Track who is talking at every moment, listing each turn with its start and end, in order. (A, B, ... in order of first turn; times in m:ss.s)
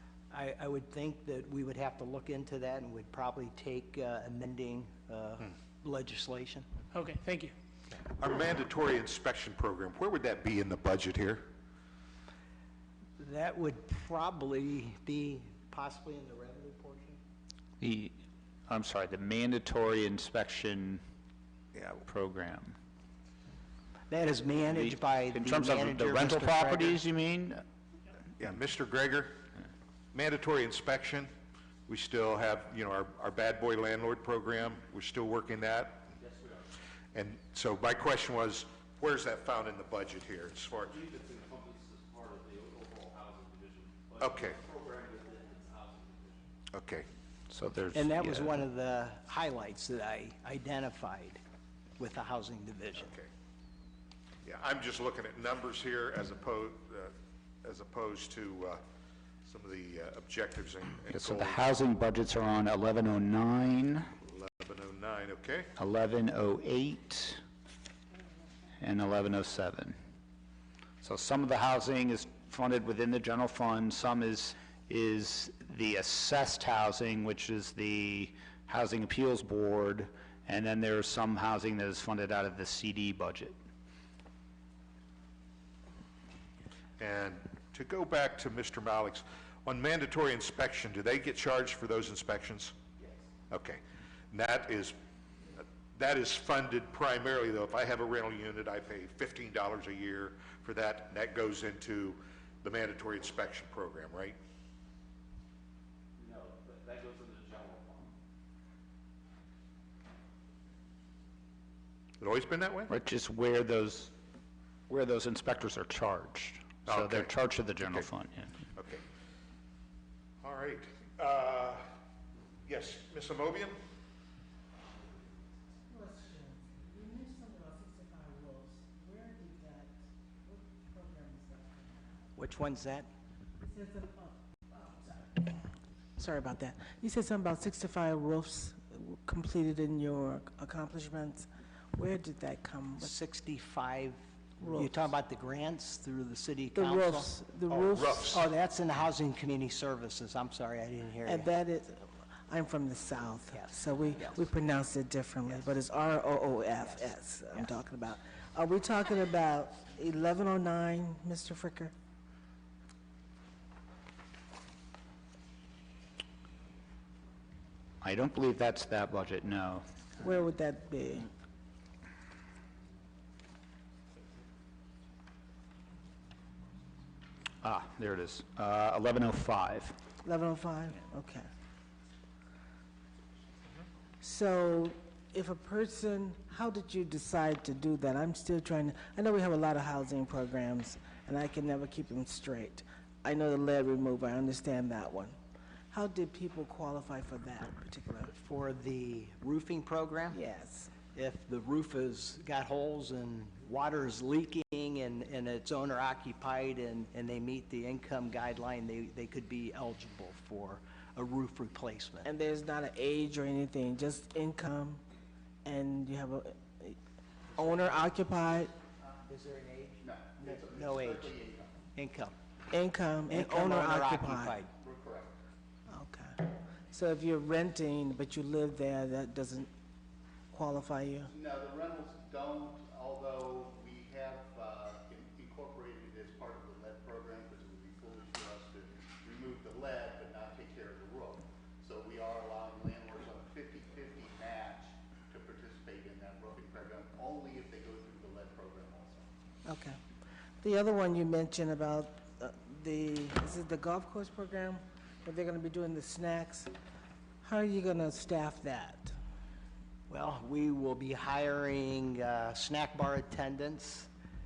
0:00.3-0:06.6 A
0:06.9-0:07.5 B
0:08.2-0:11.5 C
0:13.2-0:17.2 A
0:17.8-0:21.0 D
0:21.9-0:22.8 D
0:24.1-0:27.0 A
0:24.7-0:27.6 D
0:28.4-0:29.4 C
0:30.1-0:31.3 C
0:31.9-0:36.1 C
0:36.2-0:36.7 B
0:37.1-0:41.0 C
0:40.8-0:46.4 B
0:44.2-0:44.6 C
0:46.7-0:47.1 C
0:47.5-0:48.5 D
0:47.9-0:51.4 A
0:52.0-0:53.1 A
0:53.0-0:53.3 C
0:54.4-0:58.8 C
0:59.4-1:01.8 C
1:01.1-1:04.1 D
1:04.2-1:05.7 C
1:05.8-1:07.4 D
1:08.8-1:10.0 D
1:11.0-1:23.5 D
1:27.0-1:32.7 C
1:33.5-1:34.9 C
1:35.6-1:44.4 C
1:46.2-1:48.1 B
1:52.2-1:52.9 C
1:52.9-1:54.1 D
1:54.9-1:58.6 D
1:56.8-1:57.3 C
1:58.8-1:59.0 C
2:00.4-2:01.8 C
2:02.6-2:03.8 C
2:05.9-2:12.3 E
2:12.4-2:13.1 A
2:13.6-2:15.6 E
2:16.2-2:23.1 E
2:23.0-2:27.3 A
2:24.6-2:25.1 E
2:26.7-2:28.3 E
2:27.7-2:28.4 C
2:28.2-2:31.5 A
2:31.2-2:41.9 E
2:33.5-2:34.4 A
2:36.8-2:37.7 A
2:48.0-2:49.8 D
2:50.2-2:51.3 E
2:57.6-3:00.0 D
3:00.2-3:01.5 E
3:04.2-3:15.4 E
3:15.9-3:18.3 E
3:18.3-3:20.4 A
3:20.3-3:20.9 E
3:21.1-3:32.3 A
3:32.2-3:35.0 E
3:35.6-3:37.0 E
3:37.6-3:38.7 E
3:39.3-3:41.4 A
3:40.0-3:41.8 F
3:41.9-3:42.3 A
3:42.7-3:44.5 E
3:43.3-3:44.7 A
3:44.7-3:45.4 F
3:45.9-3:49.7 E
3:50.5-3:51.3 E
3:51.3-4:09.3 F
4:09.6-4:10.0 E
4:10.6-4:16.7 E
4:17.4-4:19.1 E
4:20.1-4:24.1 A